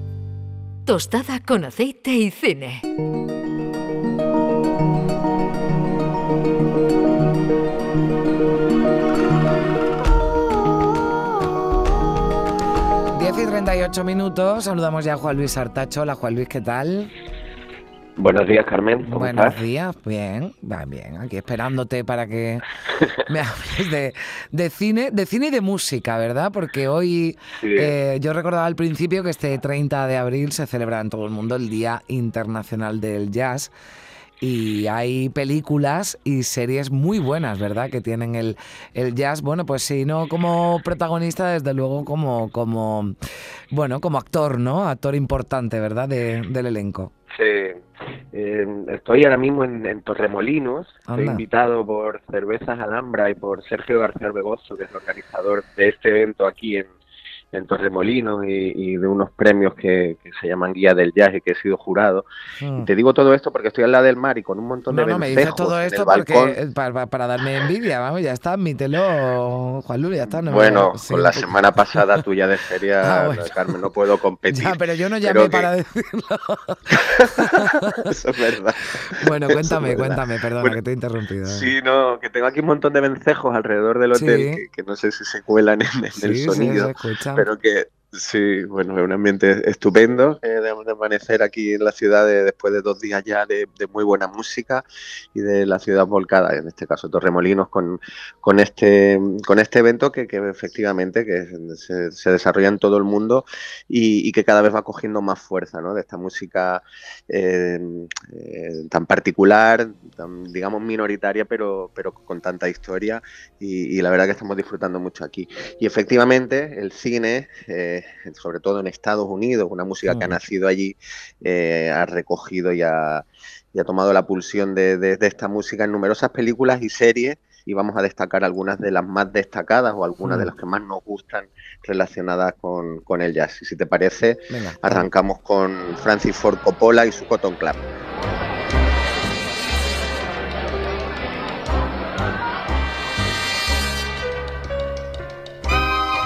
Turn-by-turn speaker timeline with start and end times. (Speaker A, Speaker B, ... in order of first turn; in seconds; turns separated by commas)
Speaker A: 0.9-2.9, Speaker B: 13.1-17.1, Speaker C: 18.2-19.6, Speaker B: 19.1-22.6, Speaker B: 23.3-33.7, Speaker C: 27.6-27.9, Speaker B: 34.4-43.2, Speaker B: 43.7-47.1, Speaker C: 47.3-56.9, Speaker B: 51.1-51.4, Speaker C: 57.5-62.2, Speaker B: 62.6-62.9, Speaker C: 62.8-66.6, Speaker B: 64.9-72.2, Speaker C: 70.2-75.7, Speaker B: 73.0-73.7, Speaker B: 74.5-78.0, Speaker C: 77.0-77.3, Speaker C: 78.1-80.8, Speaker B: 79.2-81.7, Speaker C: 81.5-137.8, Speaker B: 84.1-84.6, Speaker B: 86.2-87.5, Speaker B: 120.1-120.4, Speaker B: 130.2-130.5, Speaker B: 134.5-135.1